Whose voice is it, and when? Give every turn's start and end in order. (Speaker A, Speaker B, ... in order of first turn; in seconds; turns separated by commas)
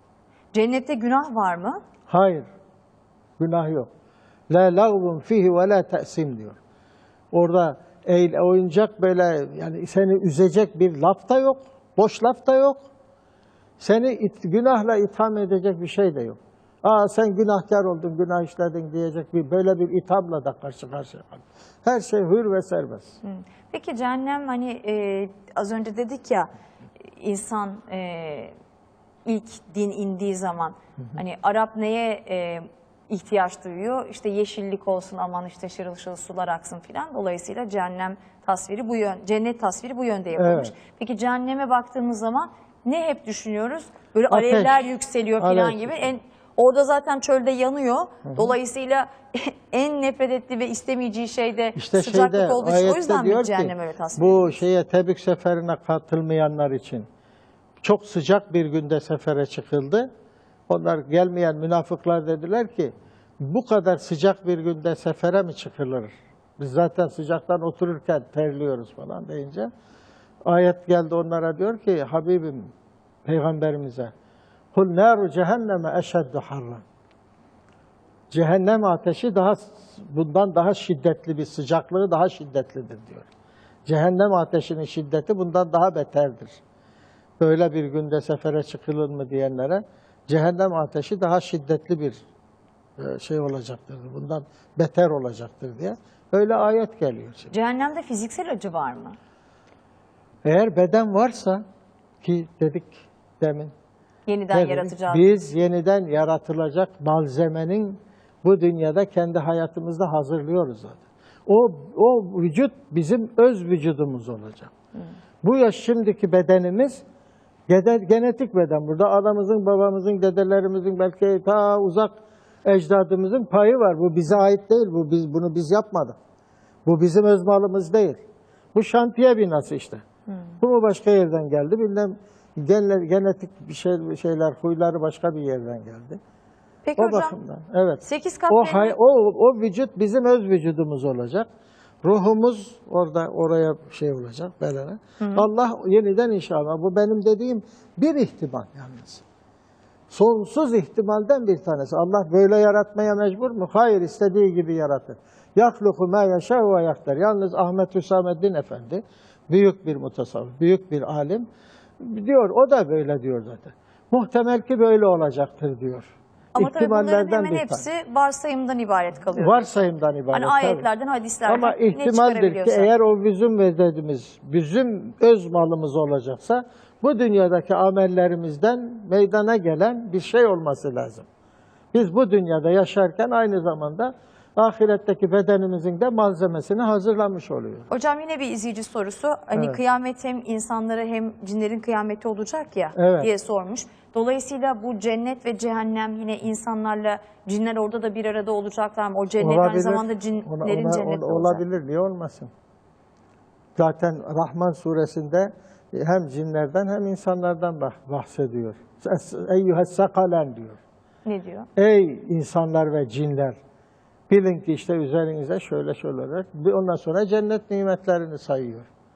Speaker A: 0.5-1.8, Speaker B: 2.1-2.5, Speaker B: 3.4-3.9, Speaker B: 4.5-6.6, Speaker B: 7.3-12.8, Speaker B: 13.8-23.2, Speaker A: 23.2-26.5, Speaker A: 27.1-28.5, Speaker A: 29.3-54.6, Speaker B: 40.4-40.7, Speaker B: 44.3-44.8, Speaker B: 45.4-46.1, Speaker B: 48.2-48.5, Speaker B: 51.8-57.1, Speaker B: 57.8-60.1, Speaker B: 60.7-69.7, Speaker B: 70.5-72.7, Speaker B: 73.2-74.1, Speaker B: 74.7-76.8, Speaker B: 78.3-83.3, Speaker B: 83.9-86.6, Speaker B: 87.4-92.2, Speaker B: 93.0-97.5, Speaker A: 97.5-99.2, Speaker B: 100.4-101.6, Speaker B: 102.2-103.7, Speaker A: 104.3-105.2, Speaker B: 104.5-114.7, Speaker B: 115.4-117.0, Speaker B: 117.7-122.1, Speaker B: 122.6-126.2, Speaker B: 126.8-128.2, Speaker B: 128.8-130.0, Speaker B: 130.6-136.2, Speaker A: 136.8-137.3, Speaker B: 137.0-141.5, Speaker A: 138.0-138.9, Speaker B: 142.0-149.2, Speaker A: 145.2-145.4, Speaker B: 150.1-161.4, Speaker B: 162.0-167.8, Speaker A: 166.5-169.8, Speaker B: 169.3-170.9, Speaker A: 170.3-172.9, Speaker B: 171.4-181.2, Speaker B: 181.9-187.9, Speaker A: 187.9-201.6, Speaker B: 192.9-193.3, Speaker B: 199.4-202.5, Speaker B: 203.8-210.8, Speaker A: 211.2-211.7, Speaker B: 211.8-213.6, Speaker B: 214.3-218.9